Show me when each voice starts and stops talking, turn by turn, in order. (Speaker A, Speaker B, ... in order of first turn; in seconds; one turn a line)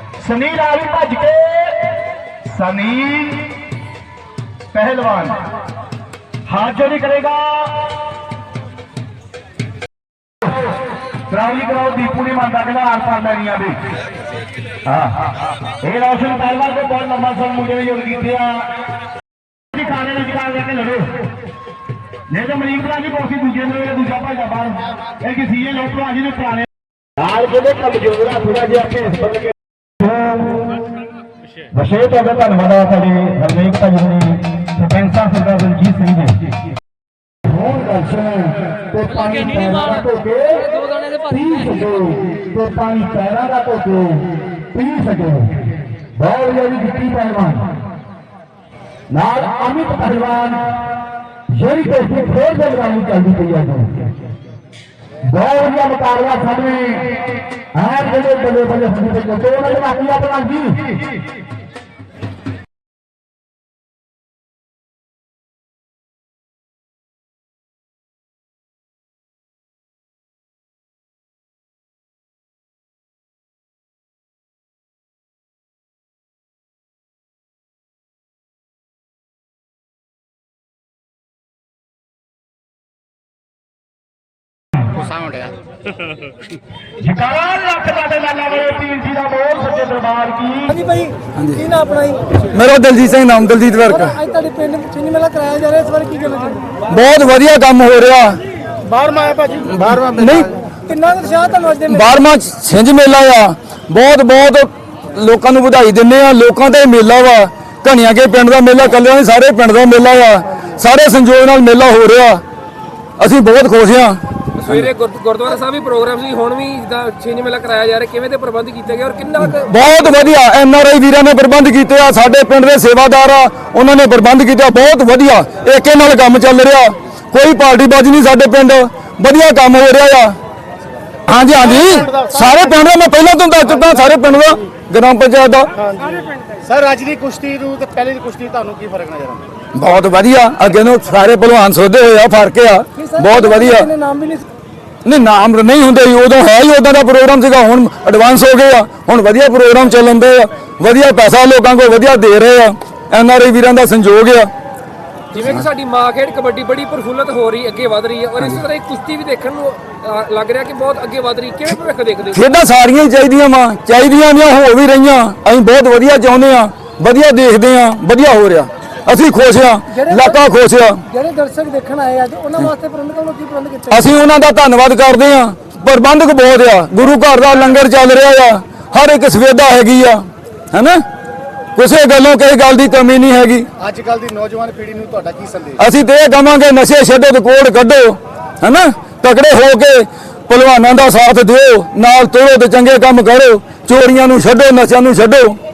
Speaker A: 0.2-3.5
Speaker A: 4.7-5.4
Speaker A: 6.5-7.9
Speaker A: 11.3-13.8
Speaker A: 14.9-15.2
Speaker A: 15.8-18.8
Speaker A: 19.7-21.3
Speaker A: 22.3-26.7
Speaker A: 27.2-30.7
Speaker A: 31.7-36.5
Speaker A: 37.5-47.8
Speaker A: 49.1-54.1
Speaker A: 55.3-61.0
Speaker B: 85.0-85.5
Speaker A: 87.0-90.8
Speaker C: 90.7-92.2
Speaker D: 91.4-91.6
Speaker D: 92.5-94.2
Speaker C: 93.9-96.7
Speaker D: 96.9-98.4
Speaker B: 98.8-100.2
Speaker D: 99.7-100.5
Speaker C: 100.9-102.2
Speaker D: 101.8-112.4
Speaker D: 113.2-114.9
Speaker E: 114.6-119.7
Speaker D: 119.5-130.4
Speaker D: 131.3-135.7
Speaker B: 131.3-132.9
Speaker B: 133.7-134.1
Speaker B: 135.7-139.5
Speaker D: 139.7-143.9
Speaker C: 143.0-144.5
Speaker D: 145.0-154.5
Speaker E: 155.3-162.5
Speaker D: 162.3-171.0
Speaker C: 169.9-170.4
Speaker C: 171.1-174.1
Speaker D: 173.9-181.0
Speaker D: 181.8-183.7
Speaker B: 183.8-185.8
Speaker D: 185.8-195.6